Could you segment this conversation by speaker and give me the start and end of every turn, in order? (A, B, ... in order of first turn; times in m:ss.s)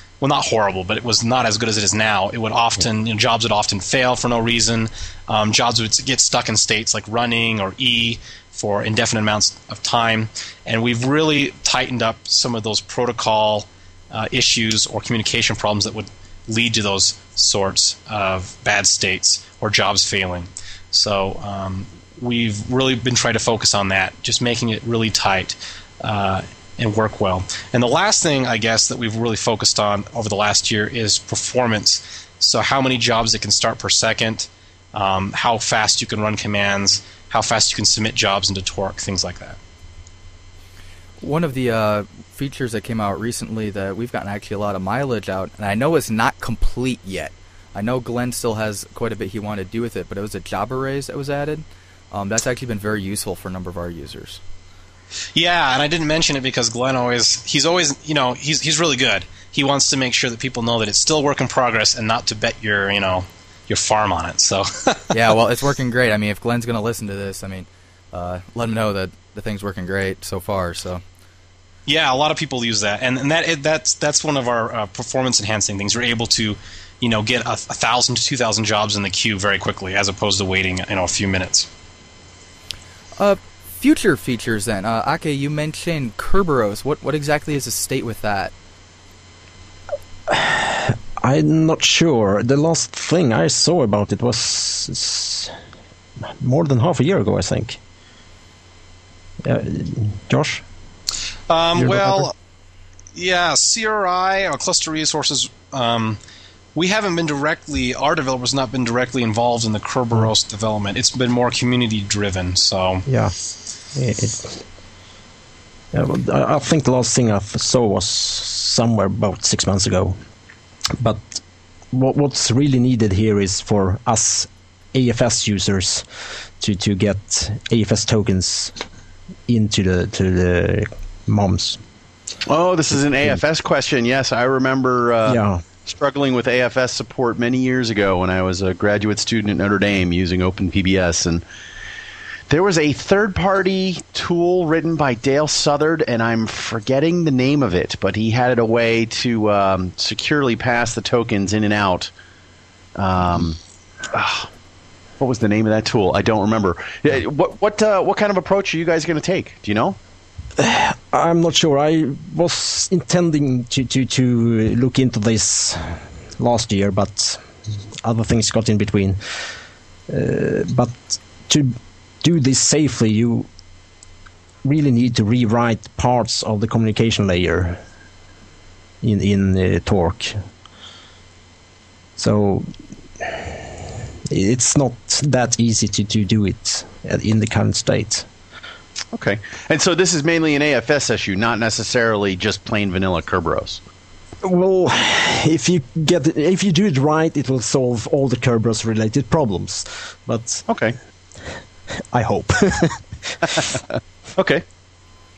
0:00.2-0:39.6 A
0:41.2-0:54.4 B
0:55.3-1:05.1 A
1:05.1-1:11.0 B
1:11.9-1:21.7 A
1:23.2-1:28.5 B
1:30.3-1:35.5 C
1:36.4-1:37.8 C
1:39.4-1:40.6 C
1:41.5-1:42.3 A
1:41.8-1:42.3 C
1:43.1-1:46.2 A
1:46.7-1:53.0 A
1:53.1-1:53.3 C
1:53.9-1:54.6 C
1:55.9-2:00.2 C
2:01.0-2:01.4 C
2:01.9-2:06.0 C
2:06.6-2:08.7 C
2:09.5-2:11.8 C
2:12.4-2:21.4 D
2:15.2-2:15.6 C
2:22.5-2:32.1 D
2:33.0-2:33.6 D
2:34.1-2:34.5 D
2:35.2-2:40.0 D
2:40.6-2:47.4 C
2:48.0-2:49.2 C
2:50.1-2:53.5 C
2:54.6-2:57.8 C
2:59.0-3:00.4 C
3:02.2-3:08.3 C
3:09.1-3:13.8 D
3:14.4-3:20.6 C
3:20.7-3:21.0 D
3:22.1-3:23.8 C
3:23.5-3:23.8 D
3:24.4-3:24.6 D